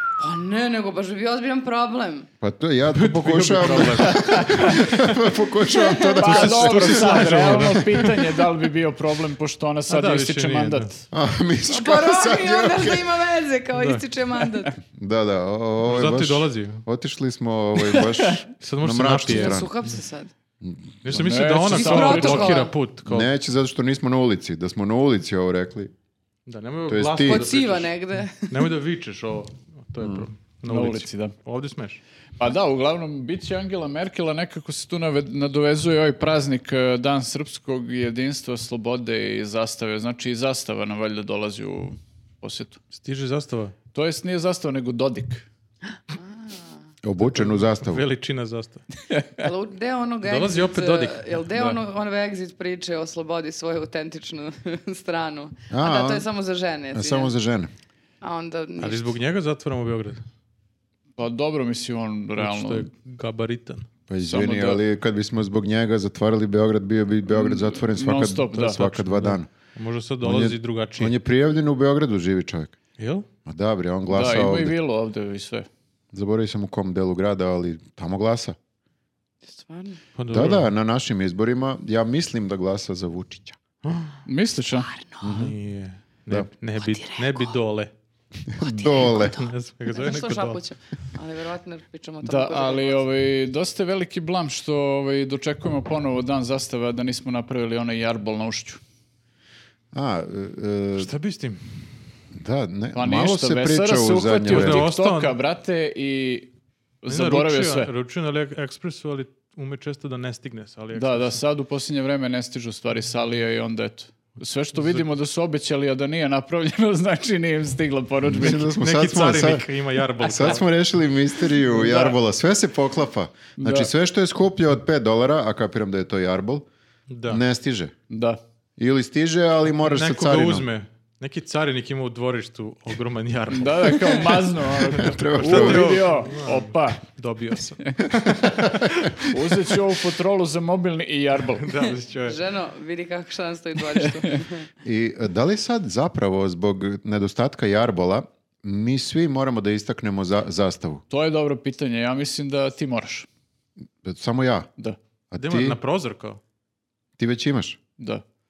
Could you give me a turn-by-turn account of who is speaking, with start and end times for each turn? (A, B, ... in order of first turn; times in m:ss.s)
0:00.2-0:02.3 A
0:02.4-0:08.1 B
0:02.9-0:05.0 C
0:03.6-0:04.8 D
0:05.7-0:06.2 A
0:06.2-0:11.0 D
0:06.2-0:08.1 C
0:09.9-0:10.9 C
0:11.1-0:13.0 B
0:11.7-0:14.8 A
0:13.7-0:14.0 C
0:14.9-0:19.7 B
0:15.9-0:16.8 C
0:17.8-0:18.4 D
0:18.6-0:19.7 C
0:19.3-0:20.3 A
0:20.6-0:21.4 B
0:21.0-0:23.3 C
0:21.2-0:22.7 D
0:21.7-0:22.7 A
0:23.0-0:25.9 B
0:26.4-0:32.0 C
0:26.9-0:27.5 B
0:27.2-0:28.7 A
0:30.0-0:30.3 B
0:30.7-0:31.4 D
0:32.4-0:42.8 D
0:42.9-0:43.7 C
0:43.9-0:45.4 D
0:46.1-0:46.8 A
0:47.0-0:48.0 B
0:47.2-0:48.8 C
0:49.1-0:49.4 D
0:49.4-0:57.3 A
0:50.2-0:51.3 C
0:55.7-0:56.3 B
0:56.9-0:57.7 B
0:58.2-0:59.2 A
0:58.8-1:00.2 C
1:01.2-1:02.9 D
1:02.4-1:03.9 C
1:04.1-1:09.5 B
1:04.3-1:04.8 D
1:07.3-1:08.9 D
1:08.6-1:11.1 C
1:10.2-1:12.7 B
1:13.0-1:13.3 C
1:13.4-1:14.7 B
1:14.1-1:15.7 D
1:16.1-1:18.6 B
1:19.4-1:20.0 A
1:20.2-1:20.7 C
1:20.3-1:23.6 B
1:23.8-1:24.1 C
1:24.2-1:24.9 D
1:24.8-1:25.3 A
1:25.2-1:25.6 B
1:25.3-1:27.9 C
1:26.8-1:27.6 A
1:28.5-1:29.4 B
1:28.6-1:29.3 A
1:28.9-1:30.6 C
1:29.9-1:33.0 A
1:32.2-1:38.8 D
1:39.9-1:41.1 B
1:41.0-1:41.6 C
1:42.4-1:44.8 B
1:42.9-1:46.5 D
1:44.5-1:45.4 C
1:47.0-1:47.9 D
1:47.1-1:51.4 C
1:51.0-1:58.7 D
1:54.8-1:55.0 C
1:58.3-2:06.7 B
1:58.4-2:00.6 C
2:01.6-2:02.2 D
2:03.6-2:03.9 D
2:07.1-2:07.4 C
2:07.2-2:07.9 B
2:08.1-2:08.4 D
2:08.8-2:10.7 B
2:09.8-2:14.3 C
2:13.5-2:17.1 D
2:14.9-2:16.1 B
2:15.4-2:19.1 C
2:18.2-2:19.3 B
2:19.3-2:21.7 D
2:21.6-2:22.4 C
2:22.3-2:24.7 A
2:24.8-2:31.0 B
2:31.1-2:33.3 D
2:34.0-2:34.7 B
2:35.3-2:35.8 B
2:35.4-2:36.4 C
2:37.2-2:37.8 B